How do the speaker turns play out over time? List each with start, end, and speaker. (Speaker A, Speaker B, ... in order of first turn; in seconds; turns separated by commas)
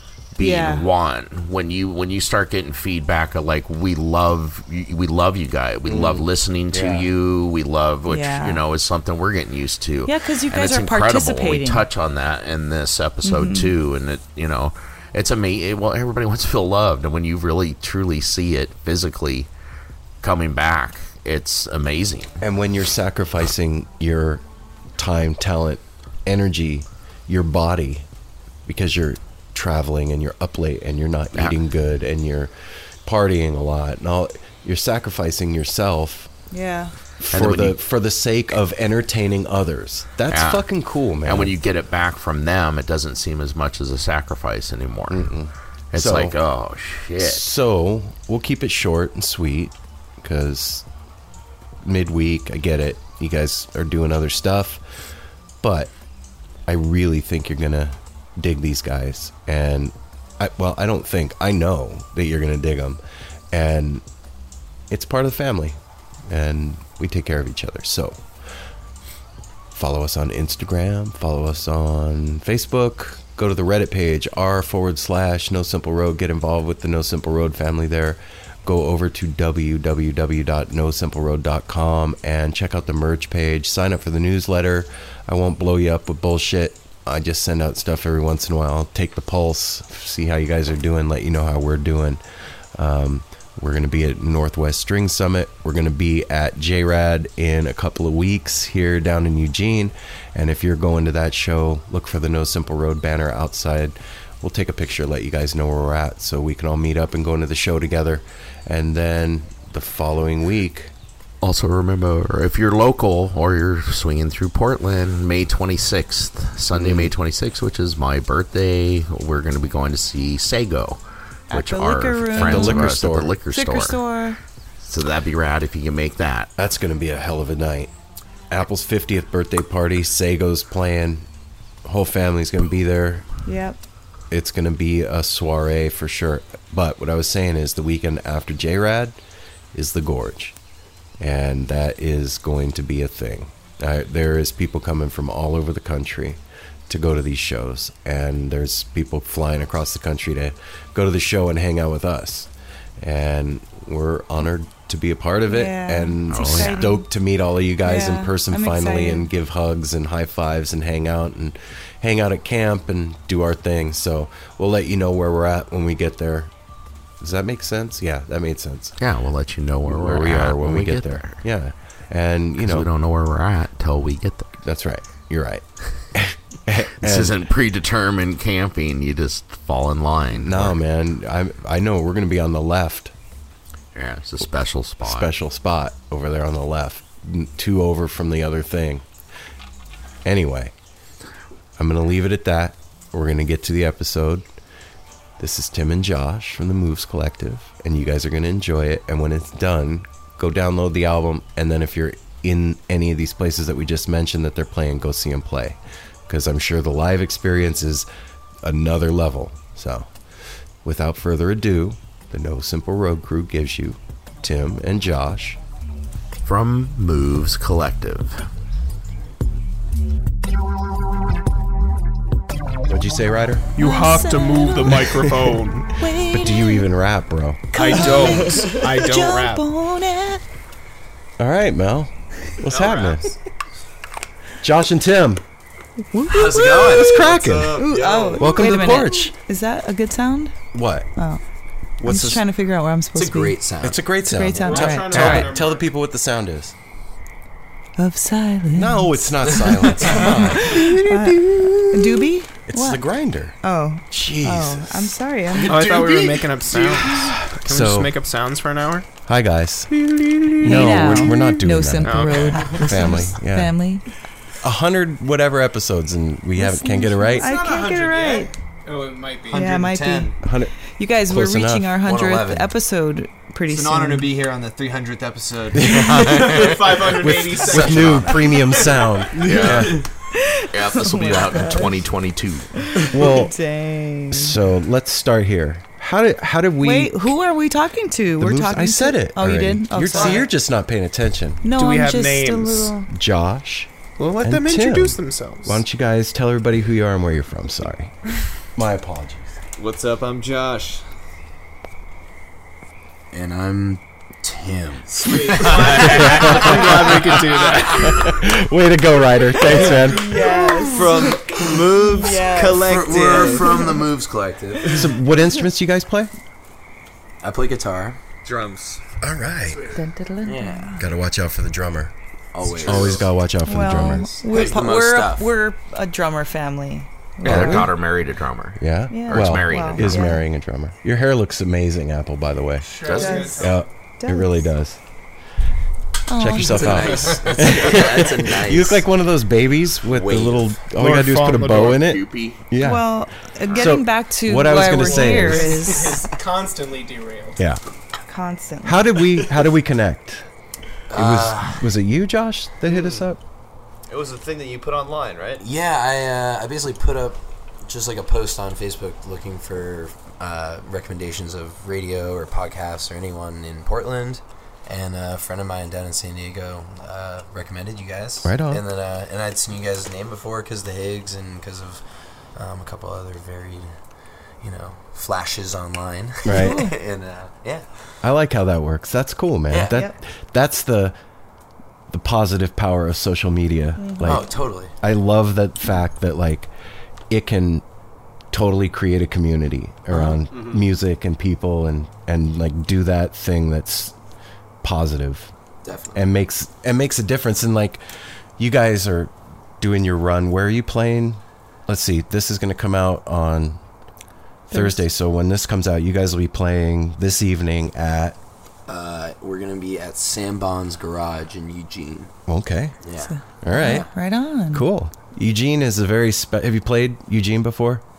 Speaker A: 0.3-19.5, Speaker B: 0.4-0.8, Speaker C: 5.8-7.1, Speaker B: 8.1-8.6, Speaker B: 10.1-11.8, Speaker B: 13.2-13.7, Speaker A: 20.2-22.3, Speaker C: 22.4-24.4, Speaker C: 25.0-28.1, Speaker C: 28.6-32.5, Speaker C: 33.0-36.3, Speaker B: 36.5-36.9, Speaker C: 37.2-41.5, Speaker A: 37.3-37.8, Speaker A: 40.3-40.6, Speaker A: 41.2-45.3, Speaker C: 45.1-46.4, Speaker A: 45.9-47.5, Speaker C: 47.2-50.8, Speaker C: 51.8-54.8, Speaker C: 55.6-55.9, Speaker C: 56.7-63.0, Speaker C: 63.5-64.0, Speaker C: 64.9-68.2, Speaker C: 69.7-92.2, Speaker C: 92.7-110.9, Speaker A: 111.4-124.0, Speaker C: 116.7-117.1, Speaker B: 121.5-123.0, Speaker C: 122.3-123.4, Speaker B: 123.5-124.4, Speaker A: 124.8-126.5, Speaker C: 126.6-127.9, Speaker C: 128.5-131.2, Speaker C: 131.8-133.2, Speaker B: 133.4-133.8, Speaker C: 134.3-139.2, Speaker C: 139.7-140.6, Speaker C: 141.2-166.5, Speaker B: 155.5-157.0, Speaker A: 156.3-156.9, Speaker B: 157.8-159.3, Speaker C: 167.2-169.0, Speaker A: 169.0-171.4, Speaker C: 169.8-172.9, Speaker A: 172.6-174.5, Speaker C: 174.6-177.4, Speaker A: 177.0-180.8, Speaker C: 180.3-183.1, Speaker A: 183.9-185.3, Speaker C: 185.0-189.0, Speaker C: 190.2-190.7, Speaker C: 191.8-194.4, Speaker C: 195.4-208.1, Speaker C: 208.6-210.1, Speaker C: 210.8-215.6, Speaker A: 216.4-218.4, Speaker C: 222.9-223.7, Speaker D: 223.8-225.9, Speaker B: 223.8-225.2, Speaker B: 225.9-226.9, Speaker C: 226.3-228.4, Speaker D: 227.7-229.6, Speaker B: 227.7-230.4, Speaker C: 231.4-233.3, Speaker E: 232.7-233.3, Speaker C: 234.6-235.4, Speaker B: 236.1-237.2, Speaker F: 236.3-237.2, Speaker E: 236.6-239.0, Speaker C: 236.6-239.3, Speaker B: 237.8-240.6, Speaker C: 240.7-241.1, Speaker B: 241.2-241.4, Speaker C: 242.0-242.4, Speaker B: 242.0-243.6, Speaker F: 243.1-244.1, Speaker C: 243.8-246.7, Speaker B: 244.2-245.5, Speaker D: 244.6-245.8, Speaker B: 248.0-253.0, Speaker C: 248.7-253.6, Speaker B: 253.6-255.9, Speaker C: 254.1-255.2, Speaker D: 255.7-259.1, Speaker E: 255.8-256.4, Speaker C: 256.7-258.1, Speaker C: 259.2-263.7, Speaker B: 260.6-264.0, Speaker D: 262.0-263.2, Speaker C: 264.6-267.5, Speaker B: 266.6-268.5, Speaker D: 267.4-269.8, Speaker E: 267.5-270.4, Speaker B: 269.5-270.4, Speaker C: 270.4-270.7, Speaker B: 270.9-274.3, Speaker C: 271.3-271.9, Speaker F: 272.0-272.7, Speaker E: 273.7-278.4, Speaker C: 275.7-280.0, Speaker D: 276.6-278.8, Speaker A: 279.4-279.9, Speaker B: 280.3-281.9, Speaker A: 280.7-282.7, Speaker B: 282.8-284.6, Speaker C: 283.0-283.5, Speaker C: 284.3-287.3, Speaker B: 286.8-290.5, Speaker C: 288.4-291.6, Speaker E: 290.1-290.4, Speaker B: 291.6-293.1, Speaker D: 291.7-292.9, Speaker C: 293.1-293.9, Speaker D: 294.2-295.8, Speaker C: 294.4-298.1, Speaker C: 298.7-299.6, Speaker E: 299.8-301.0, Speaker F: 303.3-305.8, Speaker E: 305.1-306.8, Speaker D: 305.2-308.3, Speaker C: 305.8-310.7, Speaker B: 309.6-314.0, Speaker E: 310.8-313.8, Speaker F: 312.7-314.9, Speaker C: 314.9-316.3, Speaker F: 317.4-318.2, Speaker E: 318.4-319.0, Speaker C: 319.2-319.9, Speaker B: 319.9-321.0, Speaker F: 320.4-320.9, Speaker C: 321.0-322.1, Speaker F: 322.5-323.3, Speaker C: 322.7-324.3, Speaker E: 322.9-323.2, Speaker B: 323.6-327.9, Speaker F: 324.5-325.5, Speaker C: 327.4-327.9, Speaker A: 327.4-330.2, Speaker C: 328.8-335.0, Speaker B: 329.1-330.4, Speaker D: 332.8-333.8, Speaker B: 333.1-334.6, Speaker B: 336.3-337.4, Speaker C: 336.3-343.1, Speaker F: 336.6-339.1, Speaker A: 340.1-340.6, Speaker D: 340.9-342.0, Speaker A: 341.6-342.6, Speaker B: 342.8-346.2, Speaker C: 343.7-345.9, Speaker D: 344.9-347.6, Speaker B: 348.3-349.0, Speaker C: 348.8-350.4, Speaker F: 351.1-351.9, Speaker C: 351.1-353.4, Speaker E: 352.9-353.2, Speaker E: 354.1-355.6, Speaker F: 355.6-372.0, Speaker C: 368.4-368.8, Speaker F: 372.6-373.9, Speaker F: 374.6-377.9, Speaker C: 376.4-376.9, Speaker B: 376.5-376.9, Speaker C: 378.2-381.1, Speaker F: 379.7-380.0, Speaker B: 379.9-380.2, Speaker C: 382.1-386.7, Speaker B: 384.0-384.5, Speaker F: 384.2-384.9, Speaker C: 387.3-387.8, Speaker C: 388.5-394.1, Speaker B: 390.1-390.4, Speaker C: 394.8-395.5, Speaker F: 395.8-396.3, Speaker C: 396.1-398.0, Speaker C: 398.6-403.8, Speaker B: 404.7-405.0, Speaker C: 404.7-408.4, Speaker F: 408.9-412.3, Speaker C: 412.5-412.9, Speaker F: 413.0-414.1, Speaker B: 413.2-414.9, Speaker C: 413.6-414.1, Speaker C: 414.7-418.0